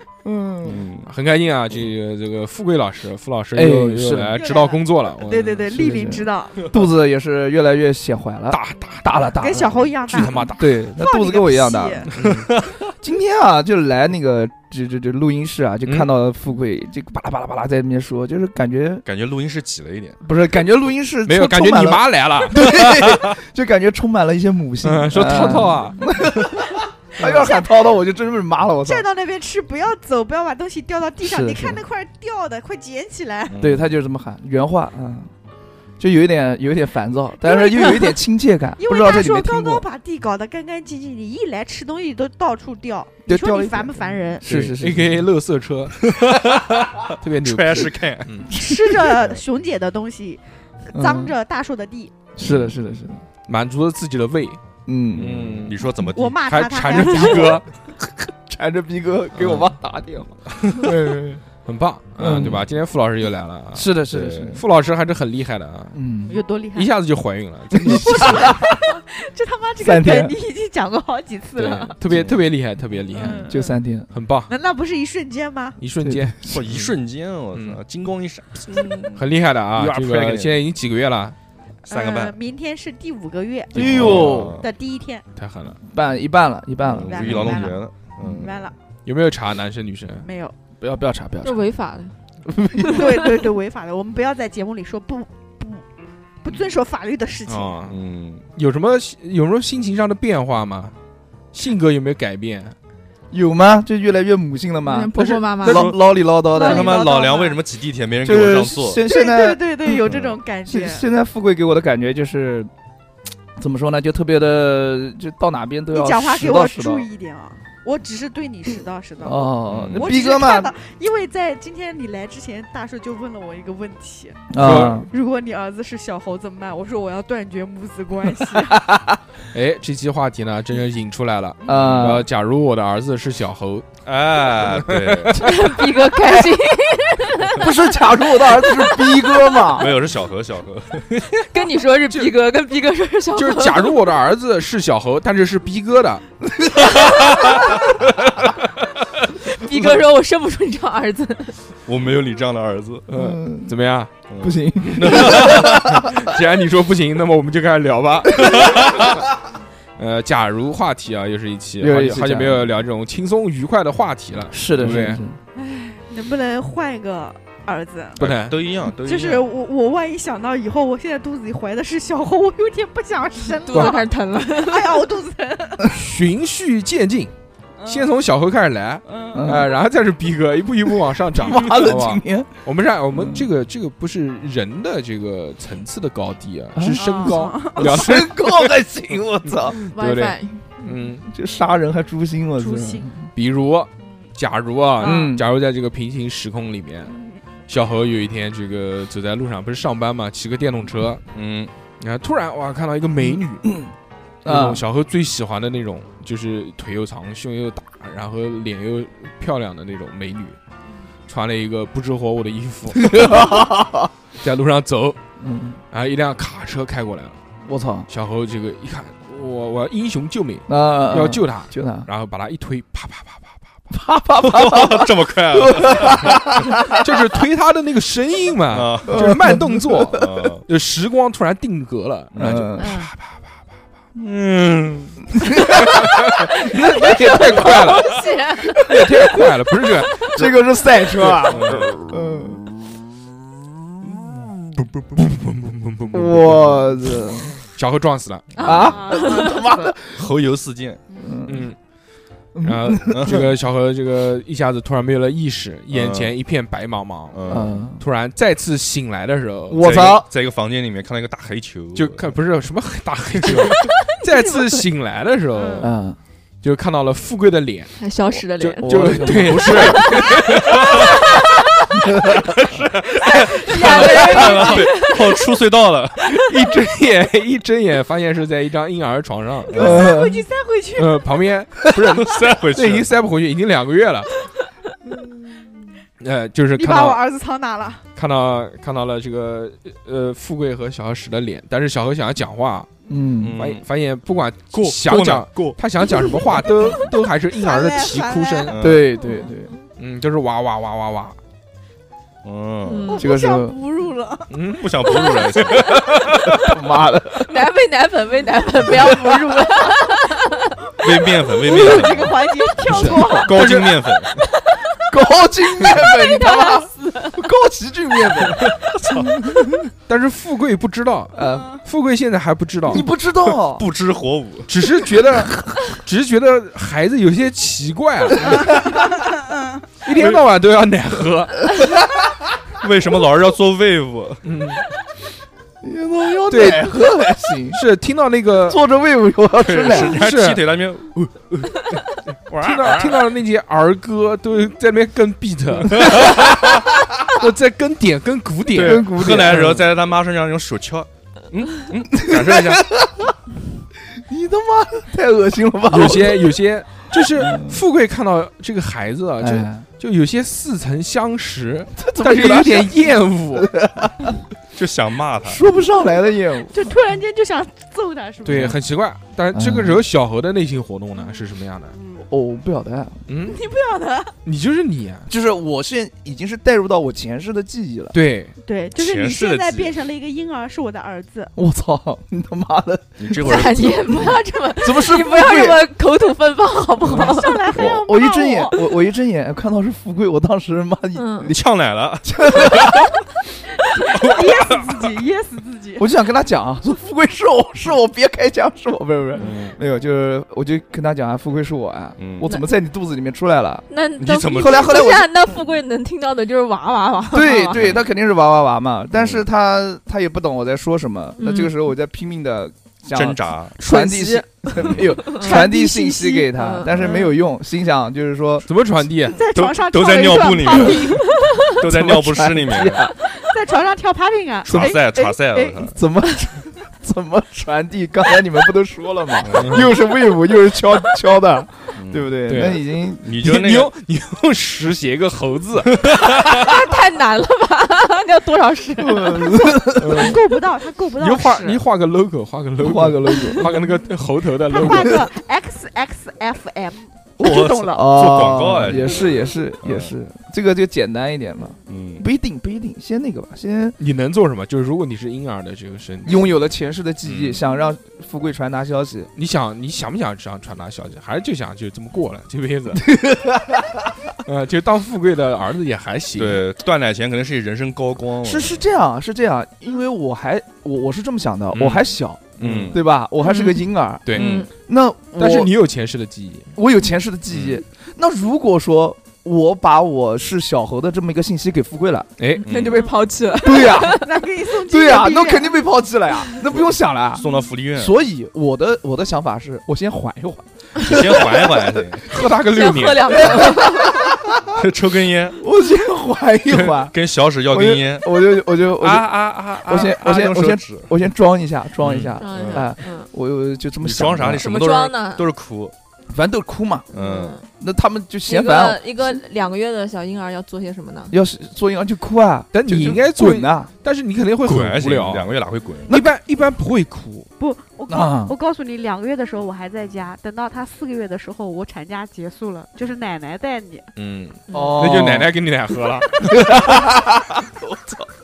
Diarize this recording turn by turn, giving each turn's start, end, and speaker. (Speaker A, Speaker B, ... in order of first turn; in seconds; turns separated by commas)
Speaker A: 0.2-0.9, Speaker B: 0.6-1.1, Speaker C: 1.1-5.7, Speaker A: 3.5-4.4, Speaker D: 4.3-6.7, Speaker A: 5.7-9.9, Speaker C: 8.5-9.3, Speaker D: 9.3-12.1, Speaker C: 10.1-10.7, Speaker A: 10.6-12.1, Speaker C: 12.2-12.5, Speaker B: 12.2-12.8, Speaker A: 12.9-19.0, Speaker B: 19.1-20.2, Speaker A: 20.2-29.1, Speaker C: 21.3-22.6, Speaker B: 22.6-23.3, Speaker C: 24.8-26.1, Speaker D: 27.2-27.8, Speaker D: 28.8-33.6, Speaker A: 31.2-31.8, Speaker B: 33.5-33.9, Speaker A: 33.6-35.3, Speaker A: 36.0-39.8, Speaker D: 37.5-38.1, Speaker D: 38.8-44.5, Speaker A: 43.3-45.2, Speaker B: 44.5-44.8, Speaker C: 44.5-46.1, Speaker B: 46.0-49.2, Speaker C: 47.2-48.5, Speaker D: 48.5-52.2, Speaker A: 48.5-49.1, Speaker A: 50.9-51.4, Speaker A: 52.4-53.2, Speaker C: 52.4-52.7, Speaker C: 53.5-54.6, Speaker A: 54.9-55.6, Speaker C: 55.1-55.9, Speaker B: 55.2-56.4, Speaker D: 56.1-57.6, Speaker C: 56.4-57.7, Speaker A: 58.5-61.4, Speaker C: 59.4-59.7, Speaker B: 60.6-60.9, Speaker C: 61.6-64.0, Speaker A: 62.2-62.7, Speaker A: 63.7-64.6, Speaker B: 64.1-64.6, Speaker C: 64.5-66.0, Speaker A: 65.9-66.4, Speaker D: 66.3-66.9, Speaker C: 66.7-68.6, Speaker A: 67.8-68.4, Speaker D: 68.1-72.0, Speaker A: 69.8-70.4, Speaker C: 71.6-73.5, Speaker B: 72.1-72.4, Speaker D: 73.1-73.8, Speaker A: 73.5-74.1, Speaker C: 74.1-74.5, Speaker D: 74.5-75.8, Speaker C: 75.8-76.9, Speaker A: 76.0-76.6, Speaker B: 76.5-79.2, Speaker C: 77.5-77.8, Speaker D: 78.7-79.1, Speaker C: 79.2-81.4, Speaker B: 79.8-80.6, Speaker B: 81.9-82.4, Speaker D: 81.9-85.2, Speaker A: 83.7-84.6, Speaker B: 83.8-84.7, Speaker C: 83.8-84.4, Speaker C: 85.4-85.8, Speaker A: 85.9-87.8, Speaker B: 86.9-88.5, Speaker D: 87.0-88.8, Speaker C: 89.0-90.3, Speaker D: 90.2-90.5, Speaker A: 90.8-91.8, Speaker E: 91.4-92.1, Speaker A: 92.5-93.2, Speaker E: 92.8-93.5, Speaker D: 92.8-95.8, Speaker D: 96.4-97.8, Speaker C: 97.5-98.0, Speaker B: 97.9-98.5, Speaker C: 98.6-101.0, Speaker C: 101.5-102.8, Speaker A: 103.3-107.0, Speaker E: 104.8-105.9, Speaker C: 105.2-106.0, Speaker B: 105.7-106.0, Speaker D: 106.5-107.6, Speaker B: 106.5-109.0, Speaker A: 108.2-112.7, Speaker D: 109.0-111.0, Speaker B: 110.1-110.3, Speaker A: 113.6-117.1, Speaker D: 115.9-128.9, Speaker A: 119.2-120.7, Speaker B: 119.7-120.1, Speaker A: 124.5-125.1, Speaker C: 124.6-125.1, Speaker A: 128.7-129.2, Speaker C: 129.5-133.9, Speaker A: 131.7-132.3, Speaker B: 131.7-132.1, Speaker B: 134.1-135.4, Speaker C: 134.7-135.5, Speaker E: 135.3-137.8, Speaker A: 136.0-136.6, Speaker A: 137.5-140.0, Speaker E: 138.5-139.4, Speaker B: 139.7-141.4, Speaker E: 141.4-144.1, Speaker C: 142.1-142.4, Speaker C: 143.3-146.2, Speaker A: 146.6-147.6, Speaker B: 146.9-147.7, Speaker C: 148.2-148.6, Speaker E: 149.5-151.5, Speaker B: 151.8-153.1, Speaker C: 153.1-154.1, Speaker A: 153.1-153.7, Speaker B: 154.3-156.0, Speaker A: 154.4-156.1, Speaker C: 155.0-159.1, Speaker B: 158.4-159.2, Speaker C: 160.0-165.2, Speaker A: 161.8-162.7, Speaker A: 164.5-165.4, Speaker D: 165.6-168.2, Speaker C: 168.2-168.6, Speaker B: 168.2-169.5, Speaker D: 168.8-175.9, Speaker E: 173.7-175.0, Speaker C: 173.7-174.0, Speaker C: 175.9-177.3, Speaker D: 177.8-178.2, Speaker C: 177.9-188.7, Speaker D: 179.1-179.6, Speaker A: 179.3-179.7, Speaker A: 181.3-182.5, Speaker A: 183.2-183.5, Speaker A: 186.8-189.8, Speaker D: 186.9-188.1, Speaker C: 189.4-191.3, Speaker E: 189.9-190.9, Speaker A: 191.3-193.2, Speaker D: 192.6-193.1, Speaker C: 193.3-197.2, Speaker D: 195.0-195.3, Speaker A: 195.0-195.5, Speaker D: 197.1-197.4, Speaker C: 197.7-201.2, Speaker B: 201.3-201.7, Speaker C: 202.0-203.7, Speaker A: 203.6-203.9, Speaker A: 204.4-204.8, Speaker C: 204.4-210.6, Speaker C: 211.3-213.6, Speaker A: 212.9-214.1, Speaker C: 214.4-215.2, Speaker A: 215.4-215.8, Speaker C: 215.9-217.4, Speaker A: 217.7-218.1, Speaker C: 218.1-223.6, Speaker A: 220.7-222.1, Speaker A: 223.9-227.0, Speaker B: 224.4-226.6, Speaker C: 226.9-233.4, Speaker B: 228.7-229.5, Speaker A: 229.1-230.4, Speaker B: 230.1-230.7, Speaker B: 232.3-232.7, Speaker A: 232.4-232.9, Speaker D: 232.8-233.1, Speaker B: 234.2-235.9, Speaker A: 235.3-238.0, Speaker C: 235.8-240.3, Speaker E: 237.7-238.9, Speaker A: 238.6-242.7, Speaker B: 241.3-242.0, Speaker B: 244.8-245.2, Speaker C: 245.2-246.8, Speaker A: 246.1-247.5, Speaker C: 247.8-248.9, Speaker D: 248.5-249.9, Speaker A: 248.6-250.3, Speaker E: 249.2-249.6, Speaker B: 250.1-251.0, Speaker D: 251.1-251.3, Speaker A: 251.2-251.7, Speaker C: 251.5-251.8, Speaker A: 252.5-253.5, Speaker C: 252.6-260.2, Speaker B: 253.1-253.5, Speaker B: 255.9-256.3, Speaker B: 257.3-257.9, Speaker A: 257.5-258.0, Speaker A: 259.7-260.3, Speaker B: 259.8-262.3, Speaker C: 261.9-265.9, Speaker D: 264.3-264.8, Speaker D: 265.5-265.9, Speaker A: 265.8-266.2, Speaker C: 266.6-268.0, Speaker E: 268.0-270.2, Speaker C: 268.6-271.1, Speaker A: 268.8-270.5, Speaker B: 270.6-271.1, Speaker E: 271.0-271.9, Speaker A: 272.0-274.8, Speaker B: 273.3-276.5, Speaker D: 273.4-275.4, Speaker E: 273.8-275.3, Speaker C: 276.3-280.1, Speaker B: 279.7-280.1, Speaker A: 279.8-280.4, Speaker D: 279.8-281.3, Speaker C: 281.0-284.3, Speaker B: 282.2-283.1, Speaker D: 285.2-285.6, Speaker C: 286.2-287.2, Speaker D: 286.7-288.1, Speaker C: 288.2-292.9, Speaker A: 293.1-293.6, Speaker B: 293.4-293.9, Speaker C: 293.6-298.8, Speaker B: 294.7-295.8, Speaker D: 296.3-298.8, Speaker B: 298.7-299.1, Speaker A: 298.8-299.7, Speaker C: 300.0-301.4, Speaker B: 302.4-303.1, Speaker E: 302.9-303.3, Speaker D: 303.1-305.4, Speaker A: 303.2-303.8, Speaker C: 304.5-306.5, Speaker B: 304.8-306.0, Speaker E: 305.3-305.8, Speaker A: 306.6-307.6, Speaker E: 307.4-310.8, Speaker A: 308.9-309.6, Speaker B: 311.0-314.4, Speaker D: 311.1-313.7, Speaker A: 311.7-312.3, Speaker C: 312.9-313.6, Speaker A: 312.9-313.6, Speaker A: 315.1-319.9, Speaker D: 315.8-317.3, Speaker B: 318.5-319.4, Speaker C: 320.1-323.1, Speaker A: 321.4-321.8, Speaker D: 321.4-321.8, Speaker A: 322.9-323.9, Speaker B: 322.9-324.7, Speaker C: 324.7-328.8, Speaker D: 328.4-329.9, Speaker A: 328.5-329.0, Speaker C: 330.0-331.7, Speaker B: 330.1-330.4, Speaker B: 332.8-334.4, Speaker C: 334.4-334.8, Speaker A: 335.8-337.8, Speaker C: 336.5-337.1, Speaker C: 337.7-338.8, Speaker A: 338.5-340.2, Speaker B: 339.6-343.2, Speaker C: 339.9-340.7, Speaker C: 342.6-346.7, Speaker B: 345.9-346.8, Speaker A: 346.1-346.4, Speaker C: 347.3-349.8, Speaker B: 348.7-352.8, Speaker A: 348.8-349.9, Speaker A: 352.1-353.3, Speaker A: 354.1-357.8, Speaker C: 355.9-363.7, Speaker A: 359.4-359.9, Speaker A: 362.0-364.4, Speaker B: 364.7-365.6, Speaker A: 365.4-366.9, Speaker D: 366.7-368.8, Speaker C: 368.4-371.9, Speaker A: 369.5-370.0, Speaker D: 371.9-372.3, Speaker A: 372.3-373.2, Speaker C: 373.3-373.6, Speaker D: 373.4-374.4, Speaker C: 374.4-375.3, Speaker A: 375.3-378.2, Speaker C: 378.1-378.5, Speaker D: 378.6-381.5, Speaker B: 379.0-379.9, Speaker A: 381.6-385.9, Speaker B: 383.2-384.4, Speaker E: 383.4-387.8, Speaker D: 387.1-388.8, Speaker A: 387.1-391.6, Speaker E: 391.1-391.5, Speaker B: 391.4-393.1, Speaker A: 392.2-393.2, Speaker D: 393.8-396.1, Speaker B: 394.1-394.9, Speaker A: 396.0-403.9, Speaker B: 399.4-399.8, Speaker B: 402.2-402.5, Speaker E: 403.9-407.8, Speaker B: 404.2-405.1, Speaker A: 404.5-405.3, Speaker A: 407.3-418.7, Speaker B: 407.7-408.1, Speaker B: 409.1-409.4, Speaker E: 411.4-411.8, Speaker B: 413.1-413.8, Speaker E: 413.8-417.3, Speaker B: 414.7-415.1, Speaker B: 416.9-417.3, Speaker C: 418.6-419.4, Speaker D: 419.3-421.4, Speaker B: 419.5-421.2, Speaker E: 421.2-421.8, Speaker B: 421.8-423.1, Speaker A: 421.8-423.1, Speaker D: 423.3-425.9, Speaker B: 424.6-426.0, Speaker A: 424.7-425.0, Speaker A: 425.9-433.4, Speaker B: 429.4-429.9, Speaker C: 429.5-429.9, Speaker B: 432.0-432.3, Speaker C: 432.5-436.3, Speaker B: 433.2-433.9, Speaker B: 435.9-436.8, Speaker E: 436.3-439.7, Speaker A: 439.0-440.4, Speaker C: 440.0-440.4, Speaker D: 440.0-441.8, Speaker C: 441.2-445.2, Speaker A: 442.8-443.8, Speaker D: 444.7-448.2, Speaker B: 447.4-450.1, Speaker A: 447.9-454.0, Speaker B: 451.9-452.2, Speaker C: 454.0-456.5, Speaker A: 456.2-459.3, Speaker C: 457.2-457.6, Speaker C: 459.4-463.2, Speaker A: 462.9-464.2, Speaker C: 464.4-466.6, Speaker B: 466.4-468.8, Speaker A: 468.4-475.7, Speaker C: 471.7-473.0, Speaker B: 472.6-473.0, Speaker E: 473.5-473.8, Speaker C: 474.3-474.6, Speaker E: 474.3-474.7, Speaker B: 474.4-474.7, Speaker C: 475.4-476.7, Speaker A: 476.8-482.3, Speaker B: 477.5-477.8, Speaker C: 482.4-482.7, Speaker E: 482.5-484.3, Speaker B: 482.6-483.1, Speaker A: 483.6-484.3, Speaker D: 483.9-485.8, Speaker A: 484.9-492.1, Speaker B: 487.4-488.1, Speaker B: 491.0-492.3, Speaker C: 492.2-493.4, Speaker E: 492.6-494.2, Speaker A: 493.4-494.5, Speaker B: 494.6-495.6, Speaker A: 495.6-504.7, Speaker B: 496.9-498.3, Speaker B: 498.9-501.1, Speaker B: 502.0-502.9, Speaker E: 502.4-503.3, Speaker B: 504.0-505.9, Speaker E: 504.5-505.5, Speaker A: 506.3-507.1, Speaker B: 507.1-507.6, Speaker E: 507.1-507.6, Speaker A: 507.8-509.4, Speaker E: 508.5-511.4, Speaker A: 511.3-513.9, Speaker C: 512.7-517.5, Speaker B: 514.6-516.1, Speaker D: 517.6-524.1, Speaker A: 518.1-518.5, Speaker C: 524.2-526.8, Speaker E: 524.7-525.0, Speaker A: 524.7-525.5, Speaker A: 526.4-527.6